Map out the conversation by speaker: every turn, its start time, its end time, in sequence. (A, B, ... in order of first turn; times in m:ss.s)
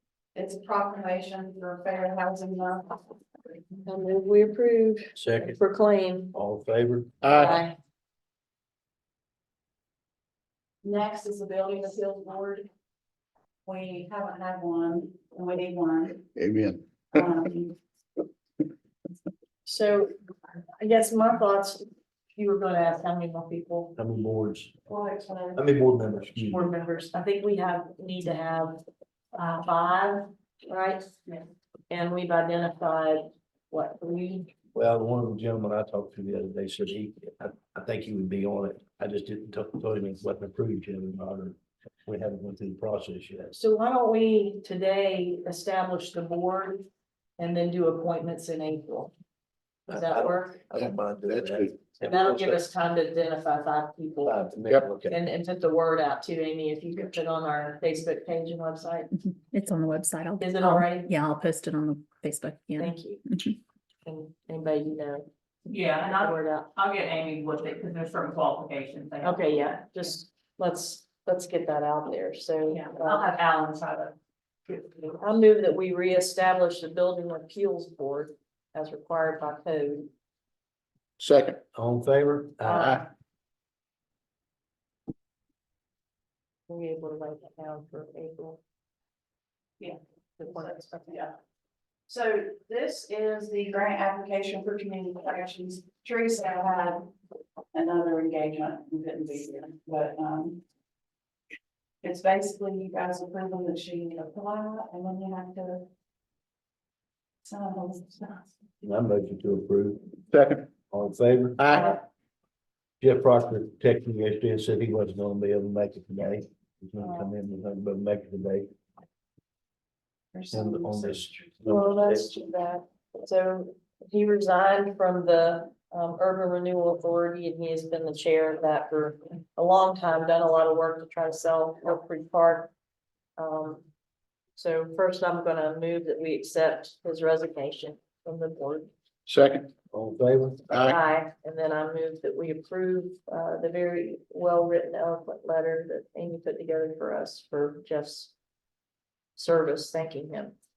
0:00.4-0:03.1 A
0:03.8-0:06.3 B
0:05.2-0:05.6 C
0:06.3-0:07.3 C
0:07.2-0:07.6 D
0:07.3-0:07.8 B
0:10.8-0:12.7 A
0:13.7-0:16.3 A
0:16.4-0:16.8 D
0:17.1-0:17.8 A
0:19.7-0:20.1 B
0:20.7-0:24.0 B
0:24.0-0:24.8 C
0:24.9-0:25.6 A
0:25.6-0:26.7 C
0:26.5-0:34.5 B
0:34.7-0:43.6 C
0:43.6-0:46.8 B
0:47.4-0:49.1 B
0:49.9-0:50.9 B
0:49.9-0:52.6 C
0:50.8-0:51.7 D
0:52.0-0:54.4 B
0:54.2-0:55.2 C
0:55.0-0:59.1 B
0:59.5-1:03.6 E
1:00.4-1:01.1 B
1:02.8-1:03.2 B
1:04.0-1:05.3 B
1:05.7-1:09.6 F
1:06.0-1:06.7 B
1:09.2-1:13.3 B
1:12.9-1:14.1 F
1:14.7-1:15.1 F
1:15.2-1:20.1 B
1:21.2-1:21.6 D
1:21.7-1:23.0 C
1:22.6-1:23.1 B
1:22.6-1:23.0 D
1:26.7-1:28.6 B
1:29.8-1:31.3 A
1:30.4-1:31.1 B
1:32.1-1:37.1 A
1:37.7-1:40.6 A
1:42.0-1:45.9 A
1:47.4-1:48.5 A
1:48.8-1:50.1 C
1:50.3-1:50.7 D
1:50.9-1:51.7 C
1:51.6-1:51.9 D
1:53.0-1:58.7 C
2:00.3-2:01.7 A
2:00.5-2:02.3 C
2:01.7-2:12.7 B
2:13.4-2:13.8 B
2:14.6-2:18.9 B
2:19.3-2:19.7 D
2:19.9-2:20.7 C
2:20.7-2:21.0 D
2:20.8-2:28.3 B
2:29.4-2:30.5 B